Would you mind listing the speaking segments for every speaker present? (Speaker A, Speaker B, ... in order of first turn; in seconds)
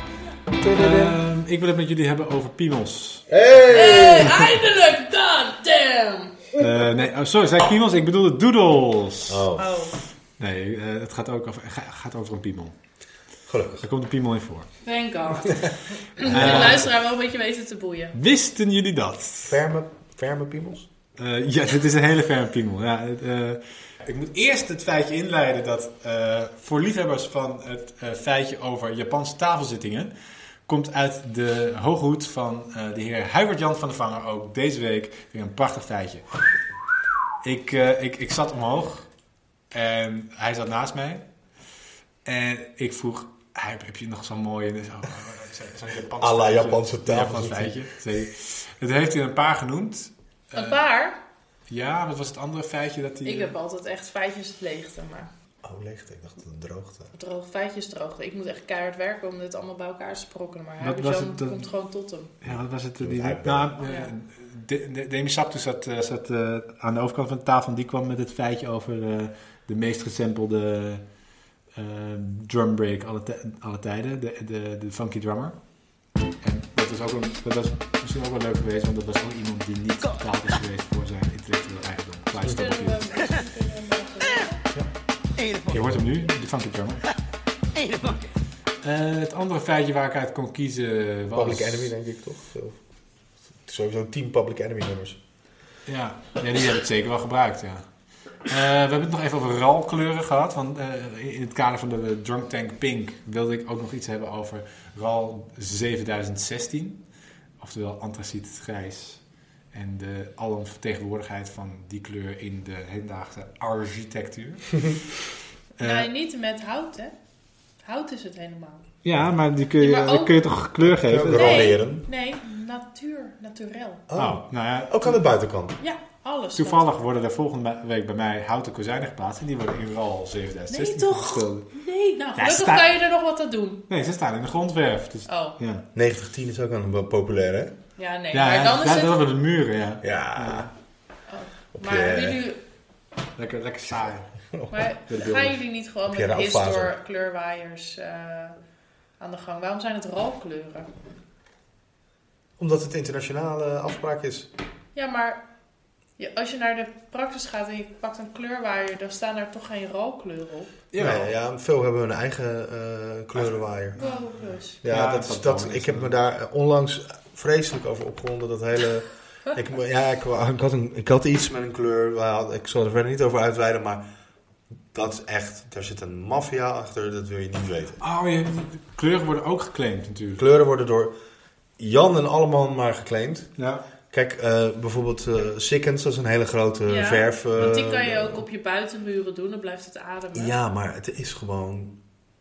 Speaker A: 0.6-1.2, 3.3-4.5, 9.3-9.8, 13.5-13.8, 16.3-16.7, 19.5-20.9, 46.2-47.8, 55.6-57.1, 62.5-63.7, 91.3-92.8, 93.6-95.2, 120.9-122.0, 124.1-125.8, 135.9-137.7, 140.0-140.7, 141.7-142.4, 146.1-146.9, 152.6-154.5, 161.0-164.0, 164.8-174.0, 174.9-178.0, 180.4-181.1, 181.8-183.5, 184.1-188.4, 190.3-192.0
Speaker B: 0.6-3.3, 6.6-9.5, 10.4-12.7, 13.8-14.7, 16.2-16.9, 18.1-19.6, 21.2-30.1, 30.7-36.2, 37.4-39.1, 39.7-41.2, 42.2-50.8, 51.7-53.5, 60.8-61.6, 62.4-71.0, 71.7-75.5, 76.4-83.0, 85.6-87.1, 88.8-91.9, 95.8-97.8, 98.5-107.0, 107.6-109.2, 109.7-115.2, 115.8-116.1, 119.0-121.7, 124.2-125.2, 126.6-131.7, 132.3-132.9, 133.9-135.8, 138.3-140.7, 143.4-144.3, 145.1-145.6, 160.9-161.3, 163.3-164.2, 164.8-166.1, 178.0-180.4, 183.6-183.8
Speaker C: 3.7-6.4, 9.6-9.9, 14.8-18.1, 50.5-51.2, 53.2-55.3, 57.1-62.3, 63.8-64.1, 82.4-84.6, 115.8-117.1, 117.8-118.8, 119.8-120.4, 121.3-124.0, 125.8-126.9, 130.7-133.8, 135.3-135.6, 138.0-139.2, 141.3-142.6, 144.7-148.6, 149.2-150.9, 154.9-155.4, 156.2-160.7, 164.0-164.8, 186.9-190.5